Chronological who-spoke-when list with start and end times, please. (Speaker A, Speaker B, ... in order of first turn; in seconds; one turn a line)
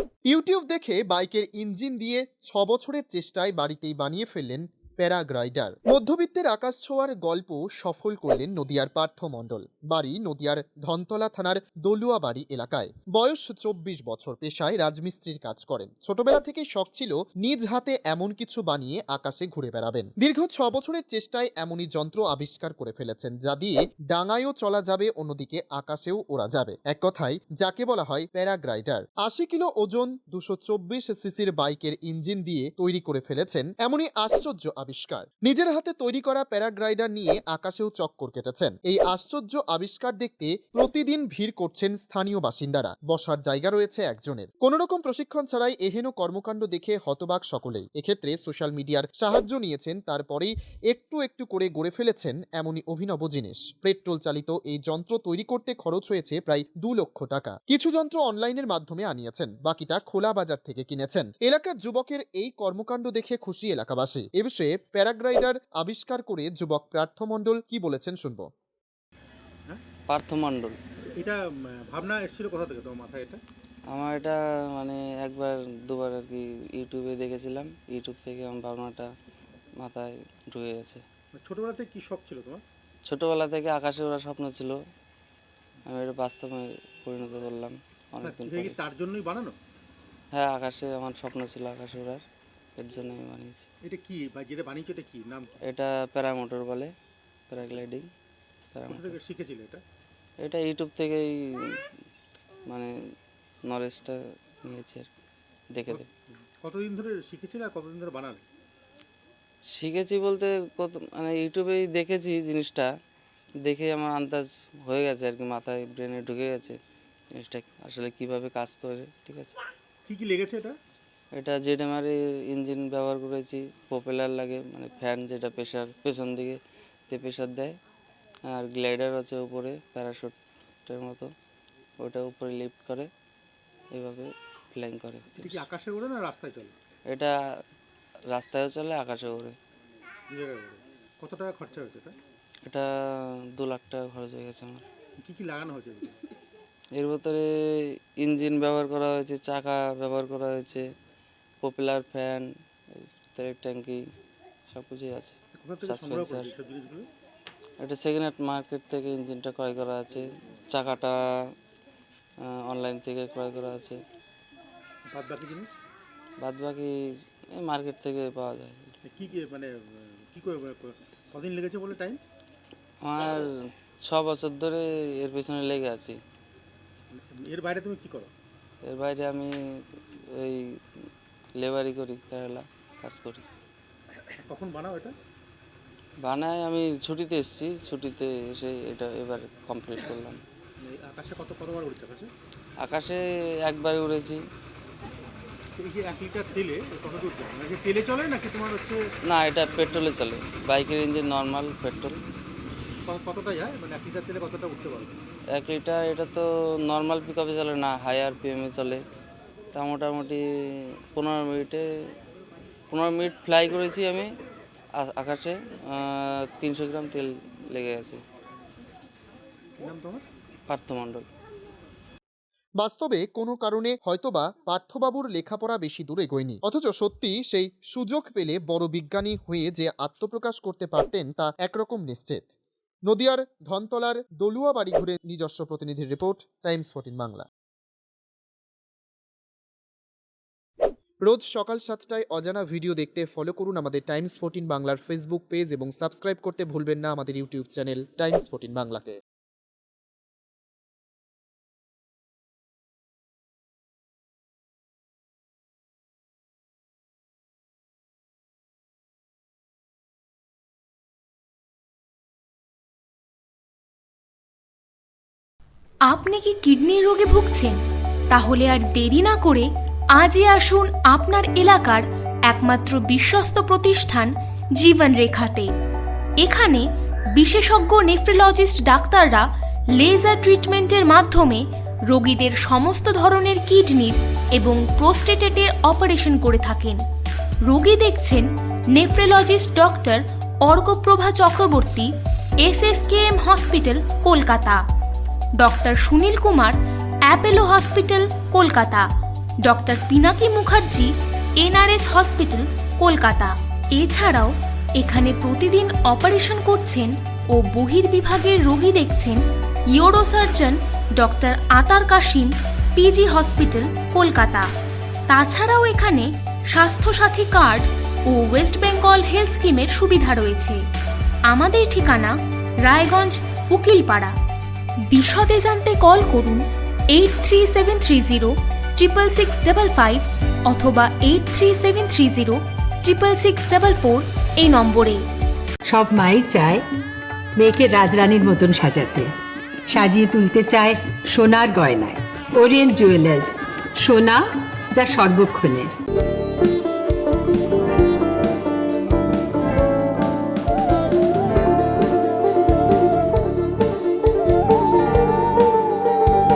Speaker A: 0.3-68.5
Speaker B: 70.1-70.7
Speaker C: 71.9-73.4
Speaker B: 73.9-79.1
Speaker B: 79.8-81.0
Speaker C: 81.4-82.6
Speaker B: 83.1-84.8
Speaker B: 85.8-88.8
Speaker C: 88.2-89.5
Speaker B: 90.3-92.2
Speaker B: 92.8-93.7
Speaker C: 93.9-95.5
Speaker B: 95.7-96.9
Speaker B: 97.5-98.0
Speaker B: 98.7-99.2
Speaker C: 98.9-99.8
Speaker B: 100.4-101.8
Speaker B: 103.7-105.1
Speaker B: 105.7-106.1
Speaker C: 105.9-108.4
Speaker B: 109.7-112.9
Speaker B: 113.6-116.8
Speaker B: 117.4-119.5
Speaker C: 120.1-120.7
Speaker B: 121.3-126.6
Speaker B: 127.1-127.7
Speaker B: 128.5-130.3
Speaker B: 130.8-131.3
Speaker B: 132.0-133.1
Speaker B: 133.9-135.6
Speaker C: 135.3-136.7
Speaker B: 138.3-139.5
Speaker C: 140.3-142.2
Speaker B: 143.6-144.8
Speaker C: 145.2-146.2
Speaker B: 146.9-147.4
Speaker B: 148.2-150.8
Speaker B: 151.6-154.0
Speaker B: 154.7-156.5
Speaker C: 155.6-157.1
Speaker B: 157.8-161.1
Speaker B: 162.5-164.0
Speaker C: 165.1-165.7
Speaker B: 166.4-166.9
Speaker B: 167.6-168.9
Speaker C: 169.1-172.2
Speaker B: 173.0-173.5
Speaker B: 174.0-176.2
Speaker C: 177.1-178.3
Speaker B: 178.8-179.5
Speaker B: 180.3-180.6
Speaker B: 181.6-183.4
Speaker C: 184.4-185.1
Speaker B: 186.2-190.4
Speaker C: 190.8-192.3
Speaker B: 192.8-194.4
Speaker C: 195.8-199.0
Speaker B: 199.3-202.2
Speaker C: 203.0-205.2
Speaker B: 205.5-209.0
Speaker B: 209.7-210.4
Speaker B: 211.1-211.8
Speaker B: 212.9-214.3
Speaker B: 215.0-218.2
Speaker C: 219.8-220.2
Speaker B: 220.7-221.2
Speaker A: 222.8-232.5
Speaker A: 233.1-237.4
Speaker A: 241.2-249.2
Speaker D: 266.1-267.8
Speaker D: 268.3-275.7
Speaker D: 276.4-276.8
Speaker D: 277.4-287.0
Speaker D: 287.6-292.1
Speaker D: 292.6-294.8
Speaker D: 295.6-296.8
Speaker D: 297.3-299.1
Speaker D: 299.6-309.4
Speaker D: 309.9-314.7
Speaker D: 315.3-320.8
Speaker D: 321.5-324.3
Speaker D: 325.1-335.2
Speaker E: 335.9-336.8
Speaker E: 337.5-339.3
Speaker E: 339.9-345.9